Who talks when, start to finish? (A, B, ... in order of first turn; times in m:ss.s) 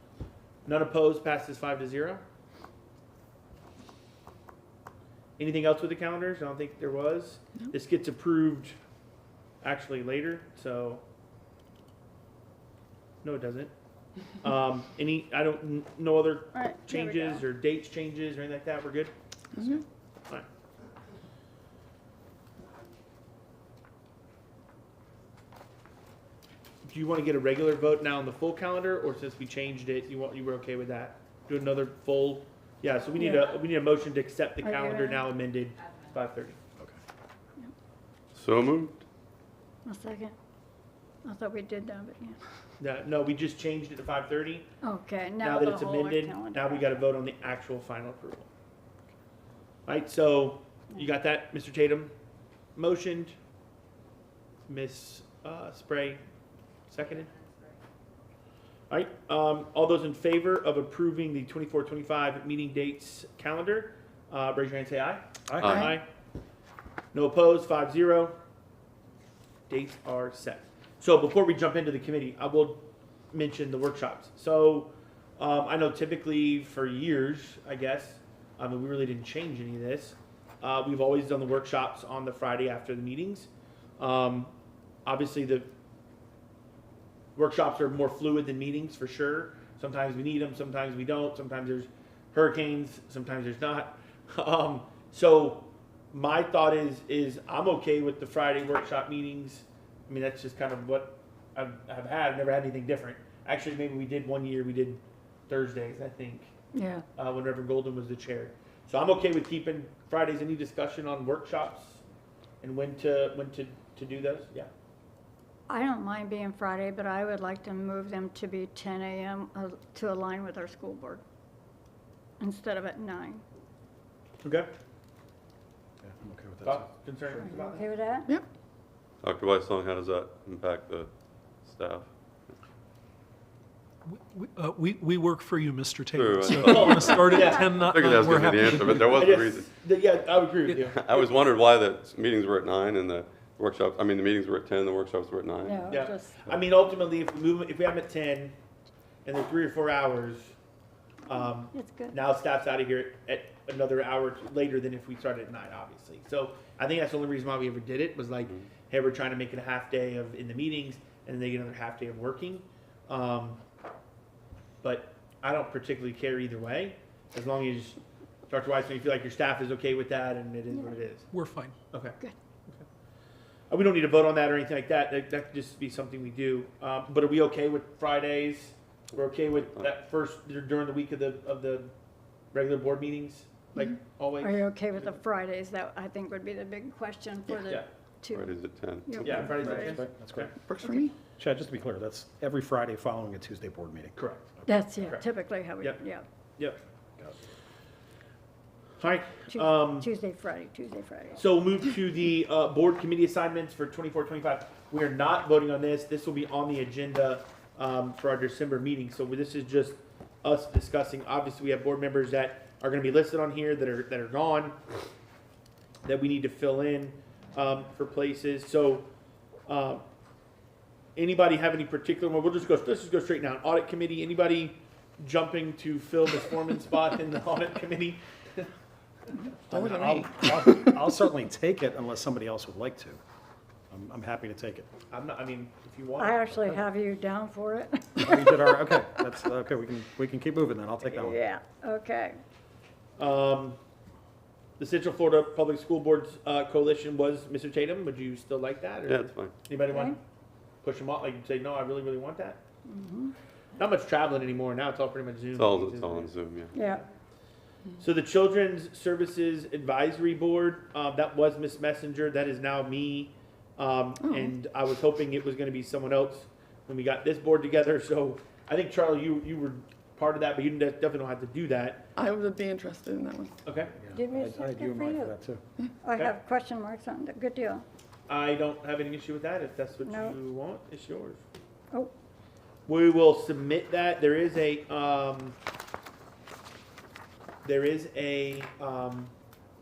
0:00.6-0:02.2 A
0:05.4-0:08.8 A
0:09.6-0:11.0 A
0:13.2-0:13.7 A
0:14.4-0:20.4 A
0:16.5-0:17.4 B
0:26.8-0:36.6 A
0:34.6-0:35.3 B
0:38.3-0:39.0 C
0:39.8-0:40.3 B
0:41.2-0:42.4 B
0:42.8-0:44.7 A
0:44.8-0:46.9 B
0:45.4-0:48.5 A
0:49.9-0:52.1 A
0:52.8-0:53.3 A
0:54.7-0:56.2 A
0:56.9-0:57.3 A
0:58.9-1:06.0 A
1:05.5-1:05.8 D
1:05.6-1:05.9 C
1:07.1-1:08.4 A
1:09.7-1:24.5 A
1:25.0-1:25.7 A
1:27.4-1:46.5 A
1:46.7-1:47.0 B
1:47.2-1:52.0 A
1:52.6-1:54.7 A
1:55.7-2:01.2 B
2:02.4-2:03.4 B
2:04.4-2:04.7 A
2:06.0-2:06.9 D
2:06.6-2:07.9 A
2:07.4-2:08.3 B
2:09.2-2:11.1 C
2:11.6-2:12.1 C
2:14.1-2:19.2 E
2:16.1-2:19.7 C
2:16.6-2:17.8 A
2:19.1-2:21.0 A
2:20.8-2:25.9 C
2:25.6-2:26.3 B
2:25.9-2:28.6 A
2:29.2-2:30.5 A
2:31.3-2:43.6 A
2:31.3-2:32.2 B
2:44.8-2:51.3 A
2:51.3-2:51.7 E
2:51.9-2:52.2 A
2:53.7-3:01.9 A
3:02.5-3:05.2 A
3:03.8-3:10.0 B
3:08.3-3:09.3 C
3:09.2-3:10.5 A
3:09.2-3:10.5 D
3:10.6-3:11.1 F
3:11.4-3:14.2 D
3:14.2-3:15.3 A
3:14.7-3:16.2 B
3:19.0-3:20.1 A
3:19.5-3:21.4 B
3:21.4-3:34.7 A
3:36.0-3:39.1 A
3:39.7-3:40.0 A
3:41.2-3:48.7 A
3:49.7-3:50.9 F
3:49.7-3:53.2 D
3:53.9-3:54.9 D
3:55.1-3:56.8 A
3:56.2-3:59.1 B
3:58.2-4:01.4 D
4:01.0-4:02.4 B
4:03.2-4:03.8 A
4:04.8-4:10.2 A
4:09.0-4:09.5 C
4:09.9-4:10.2 B
4:10.8-4:12.6 A
4:12.9-4:13.3 B
4:13.8-4:17.0 A
4:15.5-4:16.7 C
4:16.7-4:17.0 B
4:18.0-4:32.0 A
4:24.2-4:24.5 F
4:32.2-4:33.5 F
4:33.6-4:33.9 A
4:34.0-4:35.6 D
4:34.1-4:35.3 B
4:36.0-4:37.8 B
4:38.3-4:41.4 A
4:40.0-4:40.4 B
4:42.9-4:45.6 A
4:47.6-4:49.3 A